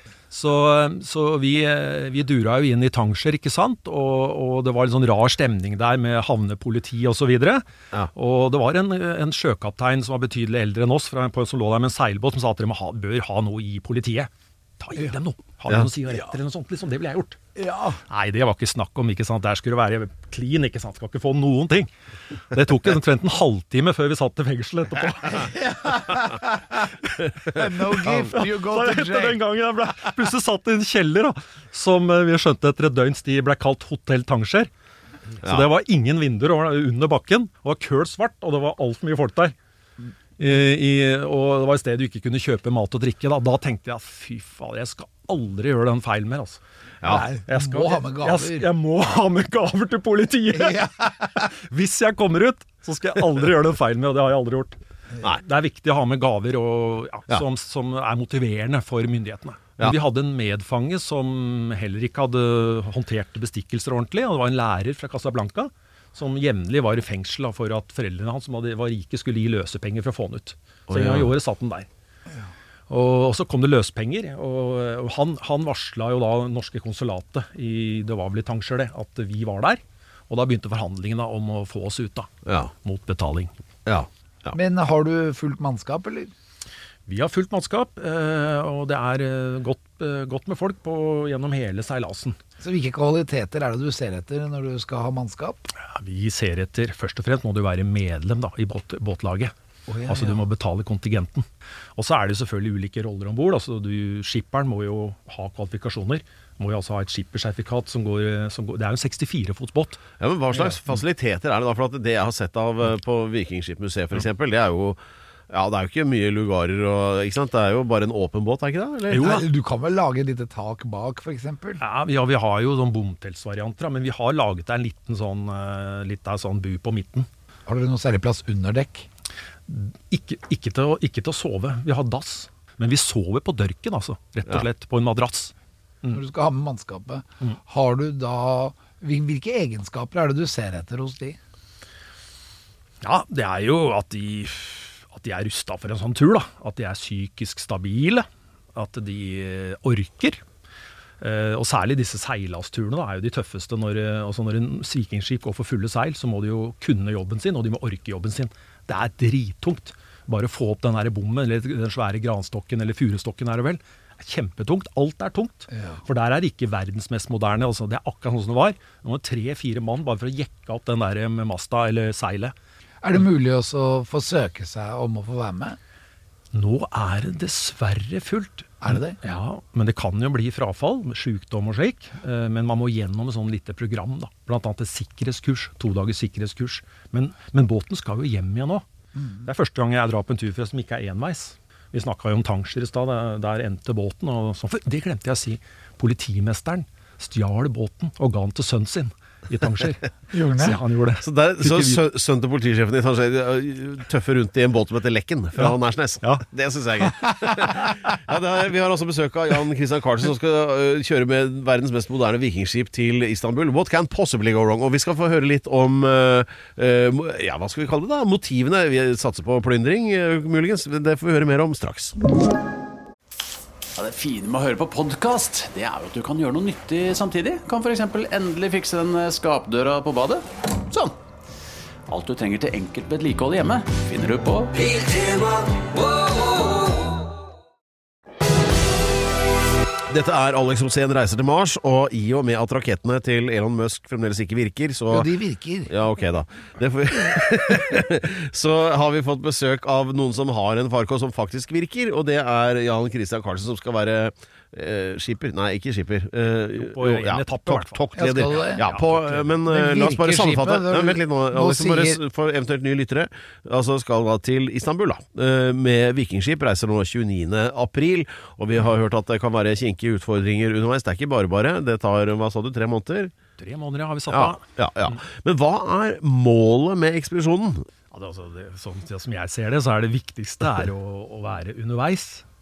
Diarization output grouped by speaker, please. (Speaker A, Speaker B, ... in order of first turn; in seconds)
Speaker A: 0.3-17.4, 18.1-21.9, 22.5-25.7, 27.8-34.7, 35.4-39.5, 40.4-46.6, 47.2-54.8, 55.4-71.9, 72.9-82.3, 82.8-83.5, 87.1-92.4, 95.8-99.5, 100.1-110.0, 119.1-119.4, 121.8-127.3, 129.7-135.5, 143.0-150.4, 151.2-172.5, 176.5-188.8, 189.4-202.0, 205.6-206.4, 256.8-259.5, 273.6-275.2, 278.1-282.4
Speaker B: 17.6-18.0, 25.3-26.8, 27.5-29.4, 47.0-48.7, 50.5-51.2, 84.5-86.3, 92.6-95.7, 99.9-100.4, 119.1-121.8, 127.7-129.1, 136.1-141.4, 165.7-166.0, 173.0-175.8, 178.8-179.2, 200.3-200.8, 245.1-245.9, 258.1-258.9, 259.7-262.2
Speaker C: 35.4-35.7, 70.9-71.3, 82.5-82.7, 83.8-84.5, 110.2-119.4, 201.2-222.2, 240.1-245.3, 245.9-273.3, 274.3-277.9
Speaker D: 224.0-231.2, 232.1-237.0